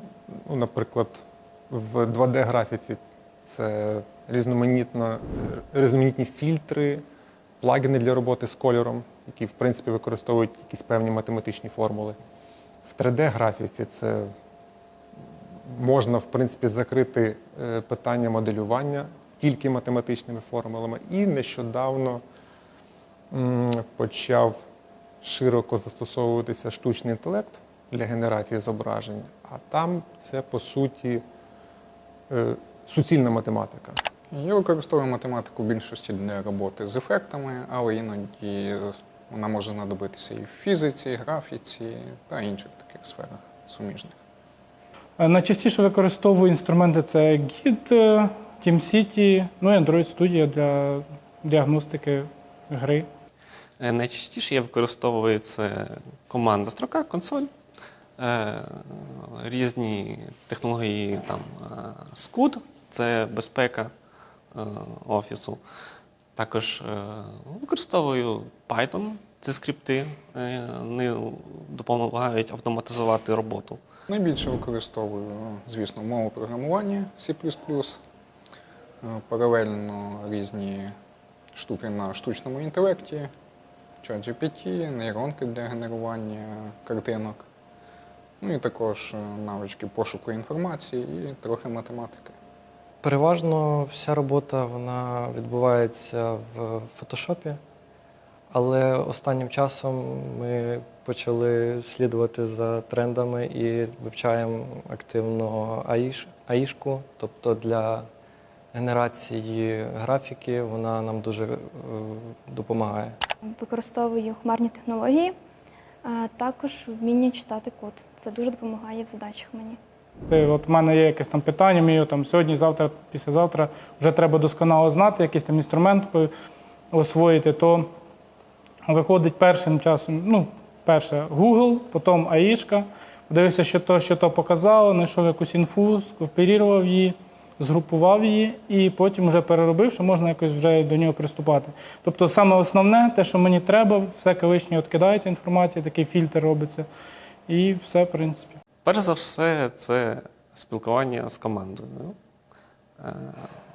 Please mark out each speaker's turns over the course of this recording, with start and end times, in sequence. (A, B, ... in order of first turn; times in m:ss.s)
0:00.3-0:07.0 A
0:07.6-0:12.2 A
0:12.8-0:14.3 A
0:15.7-0:22.2 A
0:23.3-0:24.6 A
0:25.2-0:31.2 A
0:32.3-0:34.0 A
0:34.3-0:44.2 B
0:45.2-0:53.1 C
0:53.8-0:57.5 D
0:58.2-1:03.9 D
1:04.5-1:05.6 D
1:06.4-1:13.8 D
1:14.1-1:18.0 B
1:19.0-1:20.9 B
1:21.5-1:23.3 B
1:24.0-1:27.4 B
1:28.4-1:32.3 B
1:33.0-1:37.6 E
1:38.5-1:48.0 E
1:48.7-1:53.2 E
1:53.5-1:55.3 F
1:56.0-1:59.8 F
2:00.3-2:06.3 C
2:06.9-2:07.9 C
2:08.9-2:26.8 C
2:27.5-2:28.5 C
2:28.8-2:32.2 D
2:33.0-2:33.5 D